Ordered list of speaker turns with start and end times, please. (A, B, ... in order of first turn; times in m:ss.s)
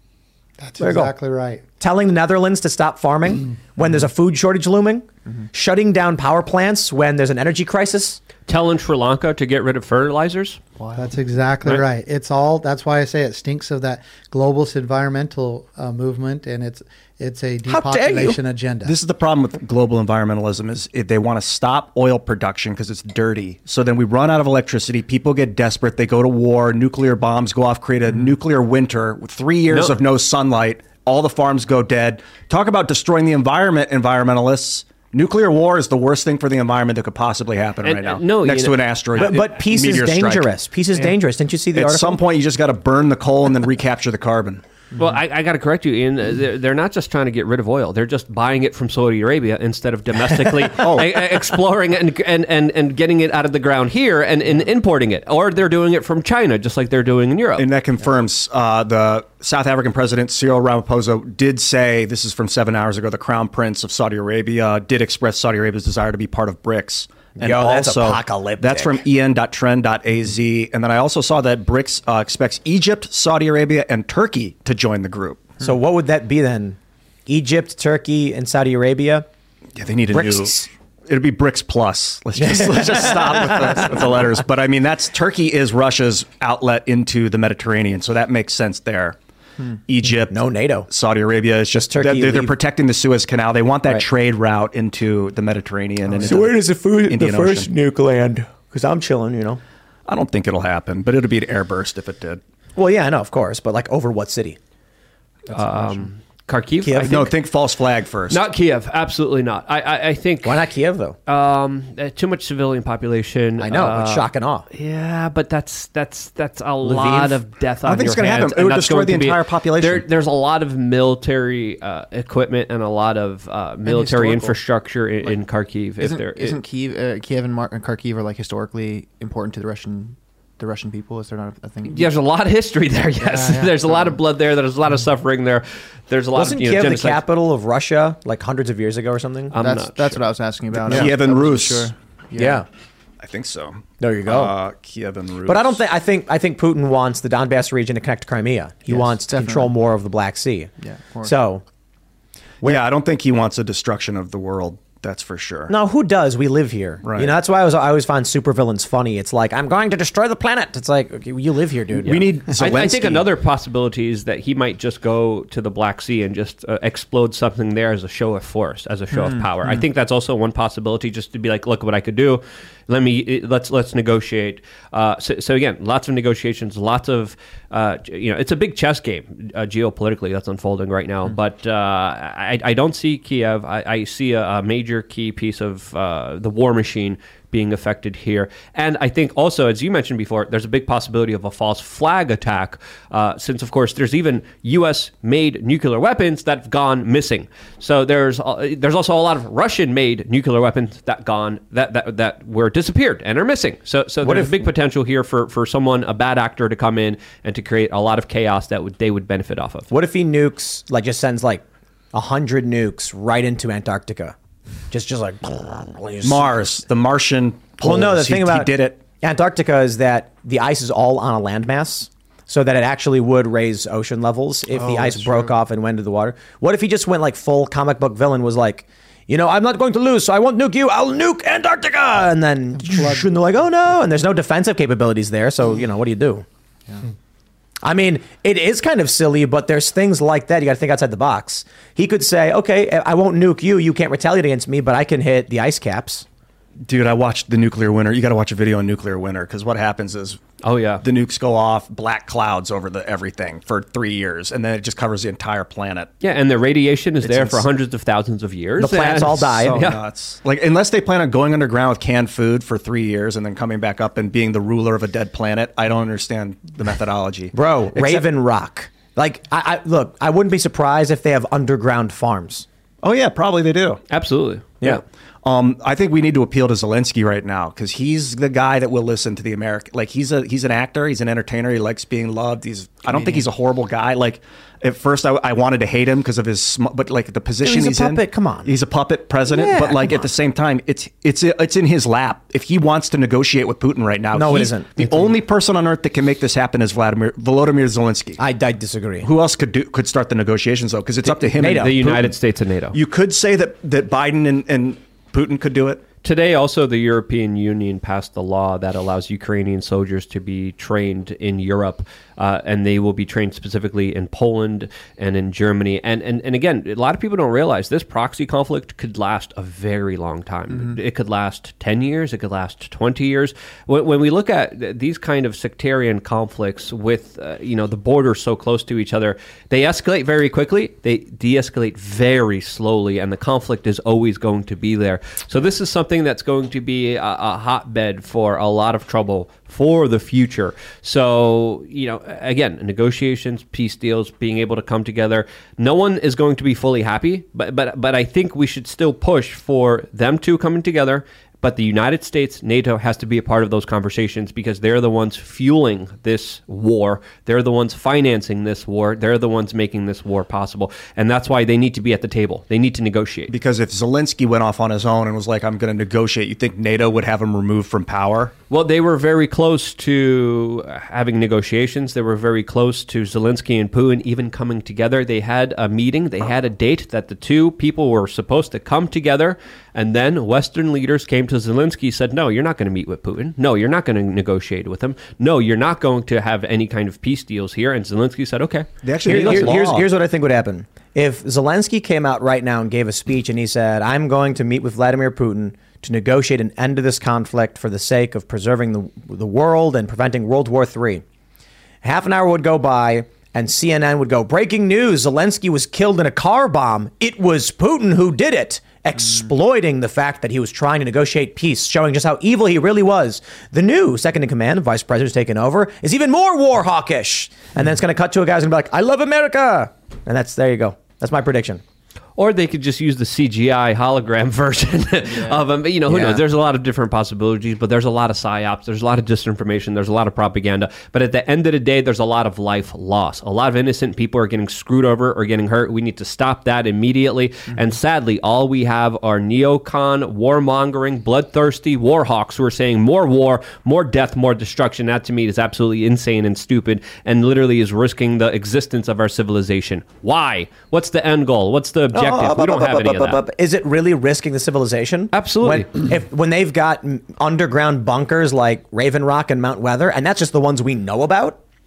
0:00.6-0:01.6 A
0:00.8-0:01.1 B
0:01.8-0:08.2 B
0:08.5-0:10.6 C
0:10.8-0:11.1 D
0:11.0-0:18.9 A
0:17.6-0:18.4 B
0:18.8-0:41.1 E
0:29.7-0:29.9 C
0:37.8-0:38.8 C
0:39.2-0:42.2 B
0:41.7-0:44.6 E
0:45.0-0:57.6 C
0:50.7-0:51.1 E
0:57.6-1:15.5 E
1:07.4-1:09.0 B
1:15.6-1:19.2 B
1:19.8-1:20.6 E
1:20.1-1:20.7 B
1:21.1-1:29.2 E
1:22.4-1:24.3 B
1:29.9-1:30.4 E
1:30.3-1:30.9 B
1:30.9-1:37.7 E
1:31.8-1:32.6 B
1:36.1-1:39.6 B
1:40.1-1:42.4 E
1:42.8-1:44.6 B
1:45.5-1:47.2 C
1:45.5-1:45.8 D
1:46.8-1:47.3 B
1:47.0-1:48.4 E
1:48.3-1:50.6 C
1:50.4-1:51.2 B
1:51.3-2:06.6 C
1:53.6-1:54.6 B
1:56.8-1:57.4 B
1:57.8-2:00.0 E
2:03.8-2:04.6 D
2:06.0-2:12.1 D
2:11.9-2:17.2 C
2:13.2-2:14.2 D
2:16.3-2:19.5 B
2:19.5-2:20.2 C
2:19.6-2:22.6 D
2:20.8-2:21.9 E
2:20.9-2:21.1 B
2:22.4-2:22.6 B
2:23.2-2:25.8 E
2:24.0-2:24.5 B
2:25.4-2:31.6 B
2:28.9-2:29.7 D
2:30.8-2:31.3 D
2:32.6-2:35.7 E
2:35.7-2:42.7 B
2:37.0-2:37.3 E
2:42.0-2:43.2 E
2:42.1-3:29.9 C
2:49.2-2:49.8 D
3:24.2-3:24.6 B
3:29.9-3:34.3 B
3:34.9-3:36.6 B
3:36.2-3:39.0 E
3:37.8-3:56.4 B
3:44.7-3:45.6 D
3:52.7-3:53.3 A
3:57.8-4:06.2 B
4:06.8-4:10.4 E
4:10.6-4:11.0 C
4:11.0-4:16.1 E
4:16.2-4:20.0 C
4:17.2-4:17.6 E
4:18.8-4:19.8 B
4:19.2-4:28.3 E
4:27.5-4:32.6 B
4:33.0-4:34.0 E
4:34.1-4:35.0 C
4:35.4-4:58.4 E
4:43.2-4:43.4 B
4:47.6-4:48.7 B
4:49.4-4:50.2 B
4:54.3-4:55.3 B
4:58.4-4:59.3 B
4:59.2-5:02.4 E
5:01.2-5:02.0 B
5:01.7-5:03.0 C
5:02.9-5:06.0 E
5:06.2-6:03.5 C
6:03.5-6:08.5 E
6:08.7-6:29.8 C
6:29.0-6:30.1 E
6:29.2-6:41.2 B
6:42.0-7:01.8 B
7:02.4-7:33.4 C
7:05.2-7:05.6 D
7:06.1-7:06.4 B
7:32.1-7:41.6 B
7:35.3-7:35.9 C